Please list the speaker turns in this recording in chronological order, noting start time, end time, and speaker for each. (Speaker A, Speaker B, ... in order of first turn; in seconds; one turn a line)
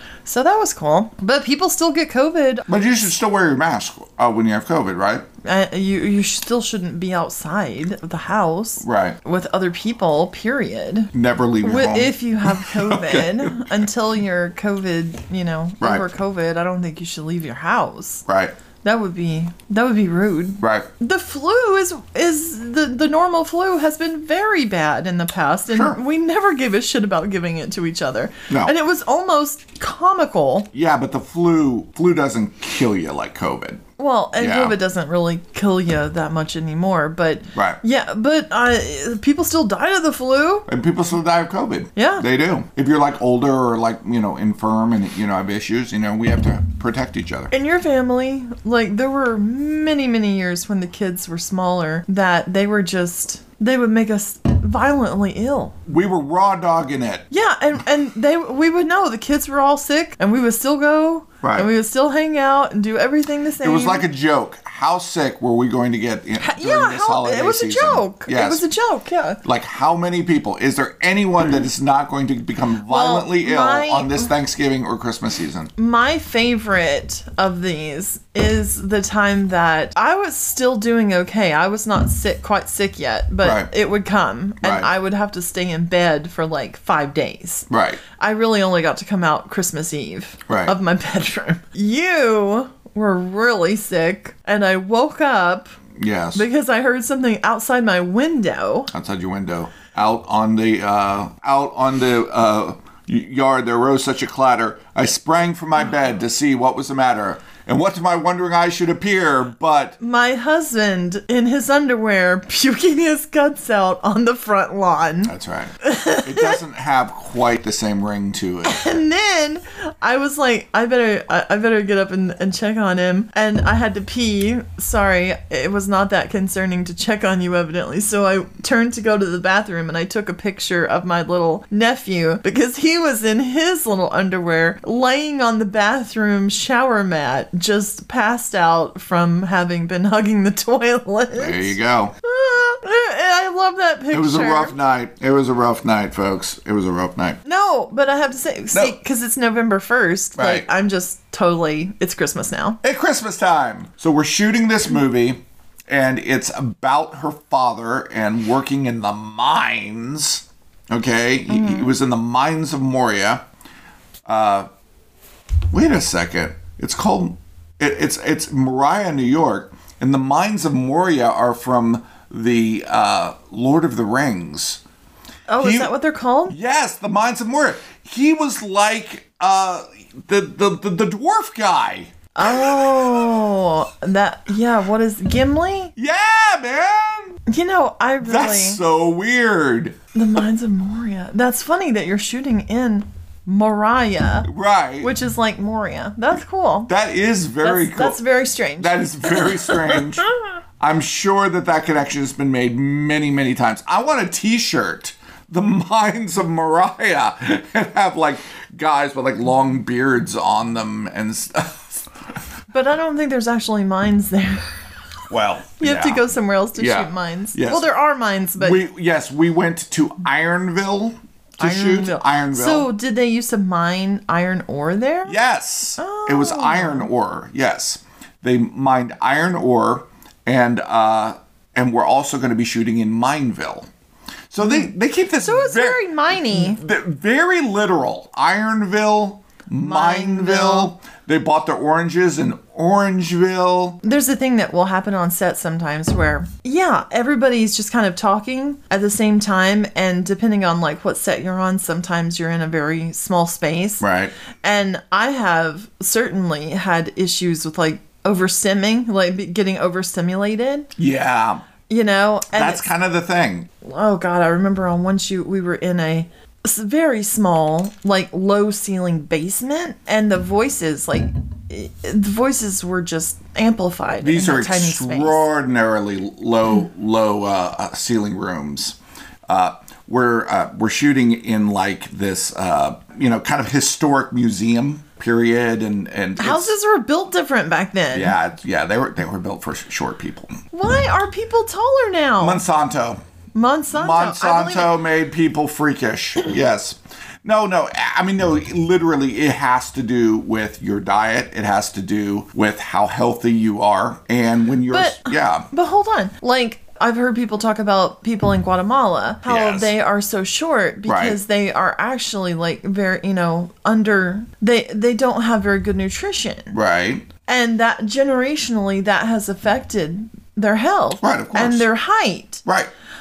Speaker A: 0.3-2.7
Speaker B: 2.7-5.3
Speaker A: 5.4-18.3
Speaker B: 8.8-9.2
Speaker B: 11.1-13.6
Speaker B: 15.8-16.1
Speaker B: 18.3-18.6
Speaker A: 18.8-30.7
Speaker B: 20.6-20.9
Speaker B: 25.7-26.0
Speaker B: 28.5-28.7
Speaker B: 30.7-33.9
Speaker A: 34.0-40.7
Speaker B: 34.4-34.8
Speaker B: 37.5-37.8
Speaker B: 40.7-47.5
Speaker A: 42.0-42.2
Speaker A: 47.5-55.8
Speaker B: 55.9-57.3
Speaker A: 57.3-64.0
Speaker B: 61.4-61.7
Speaker B: 63.6-68.7
Speaker A: 66.4-69.4
Speaker B: 69.4-75.7
Speaker A: 72.9-74.3
Speaker A: 75.8-95.7
Speaker B: 83.4-83.7
Speaker B: 84.6-84.9
Speaker B: 87.7-88.0
Speaker B: 90.5-90.8
Speaker B: 96.0-96.5
Speaker A: 96.3-98.9
Speaker B: 98.9-110.0
Speaker A: 110.0-116.6
Speaker B: 115.2-118.8
Speaker A: 118.6-144.8
Speaker B: 141.3-142.2
Speaker B: 144.1-147.4
Speaker A: 147.4-152.8
Speaker B: 148.7-149.0
Speaker B: 150.4-150.7
Speaker B: 152.8-163.4
Speaker A: 161.5-161.9
Speaker B: 164.3-164.7
Speaker B: 165.7-174.8
Speaker A: 175.5-176.6
Speaker B: 175.6-175.9
Speaker B: 176.5-183.0
Speaker A: 182.3-185.9
Speaker B: 186.0-187.4
Speaker A: 187.5-188.8
Speaker B: 188.2-190.0
Speaker A: 190.1-194.5
Speaker B: 194.5-195.1
Speaker A: 195.0-196.9
Speaker B: 196.9-198.2
Speaker A: 197.6-200.0
Speaker B: 198.8-200.3
Speaker B: 200.8-212.1
Speaker A: 212.7-214.7
Speaker B: 215.3-216.2
Speaker A: 215.8-218.8
Speaker B: 216.8-217.9
Speaker B: 218.6-222.9
Speaker A: 221.6-225.4
Speaker B: 225.3-233.9
Speaker A: 226.0-227.1
Speaker B: 234.5-244.0
Speaker A: 234.6-234.9
Speaker A: 235.4-236.8
Speaker A: 239.8-240.9
Speaker A: 244.0-254.1
Speaker B: 254.0-254.3
Speaker A: 254.6-260.9
Speaker B: 261.0-261.6
Speaker A: 261.9-262.8
Speaker B: 262.5-263.7
Speaker A: 263.8-275.5
Speaker B: 274.2-286.8
Speaker A: 286.4-288.4
Speaker B: 288.1-290.6
Speaker A: 290.7-292.6
Speaker B: 292.4-293.2
Speaker A: 293.5-294.9
Speaker B: 293.9-305.7
Speaker A: 304.9-316.8
Speaker B: 309.5-309.9
Speaker B: 311.1-311.4
Speaker B: 316.7-317.3
Speaker A: 317.4-322.6
Speaker B: 321.2-321.9
Speaker B: 322.6-322.9